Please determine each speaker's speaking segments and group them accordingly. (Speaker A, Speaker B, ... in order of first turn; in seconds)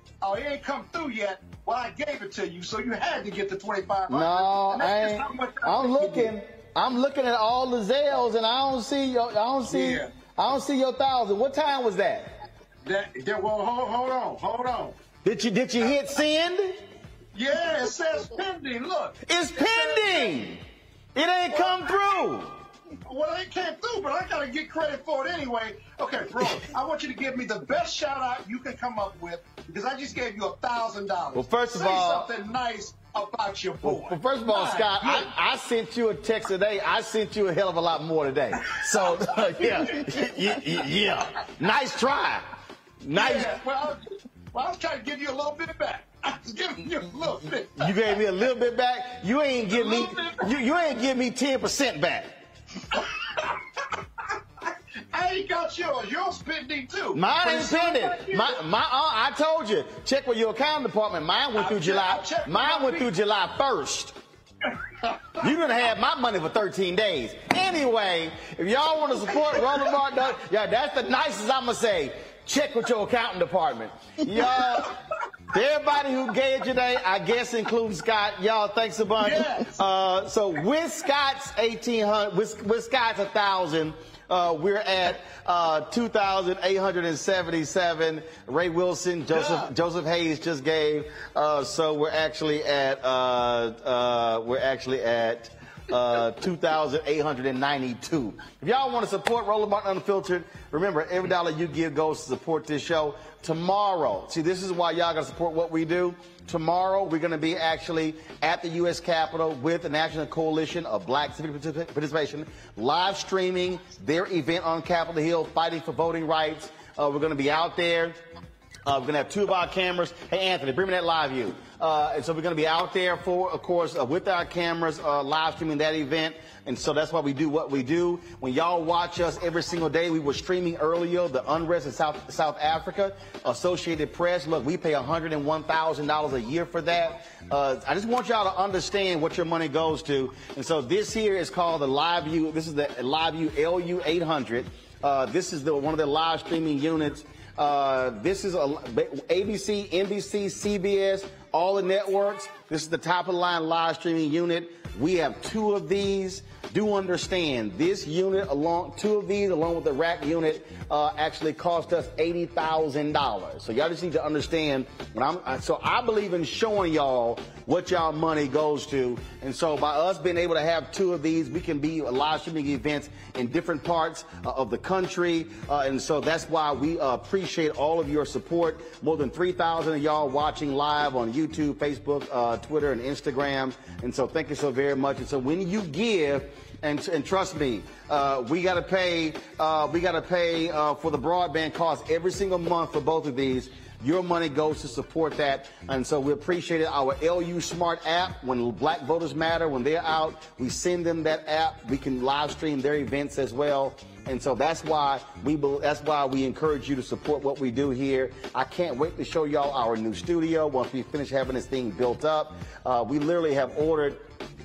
Speaker A: 0.2-6.3, 9.7-10.1, 12.8-15.0, 17.3-20.4, 21.5-22.1, 23.1-35.3, 38.9-40.2, 43.1-48.0, 49.7-50.5, 53.0-53.5, 55.1-58.6, 61.6-63.1, 65.0-65.5, 69.5-69.9, 79.2-79.8, 89.3-89.7
Speaker B: 4.1-12.3, 15.2-16.8, 19.3-20.6, 21.1-22.6, 31.4-32.3, 33.8-42.5, 43.0-43.6, 47.8-52.3, 57.1-64.2, 65.4-74.9, 75.5-118.2, 118.8-214.3